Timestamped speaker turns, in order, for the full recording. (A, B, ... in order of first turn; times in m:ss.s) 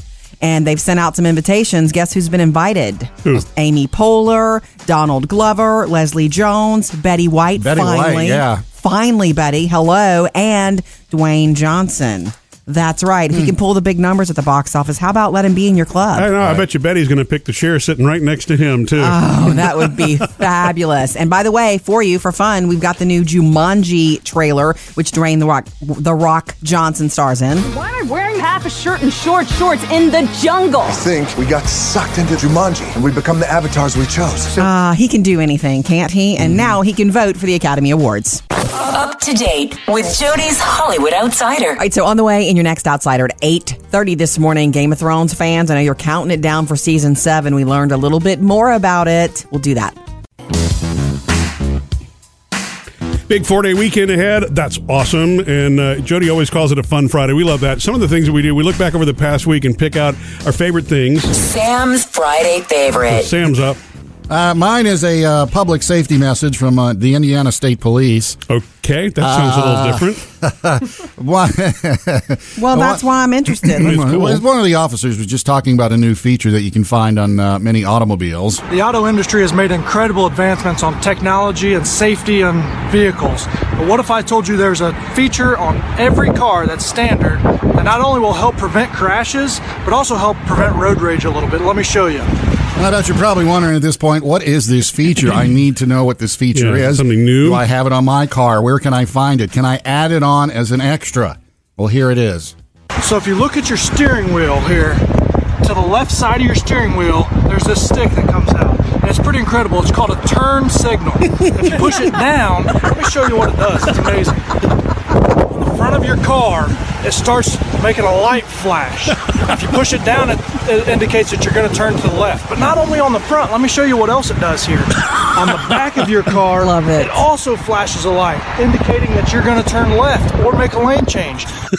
0:00.4-0:16.3 A
0:07.6-0:08.6 B
0:16.2-0:20.0 C
0:16.4-0:16.6 B
0:19.0-0:27.7 A
0:27.6-0:31.0 D
0:30.8-0:34.7 E
0:34.6-0:38.4 A
0:38.7-0:41.8 F
0:41.8-0:50.0 A
0:53.3-1:01.3 C
1:01.3-1:03.3 F
1:03.1-1:03.8 C
1:04.3-1:08.4 B
1:08.5-1:10.2 C
1:09.2-1:13.0 B
1:12.6-1:13.9 A
1:13.6-1:18.6 B
1:13.8-1:14.4 C
1:18.7-1:32.3 G
1:32.8-1:42.5 B
1:36.5-1:37.6 C
1:43.0-1:45.0 G
1:45.6-1:54.5 G
1:55.5-2:11.5 G
2:06.6-2:07.2 A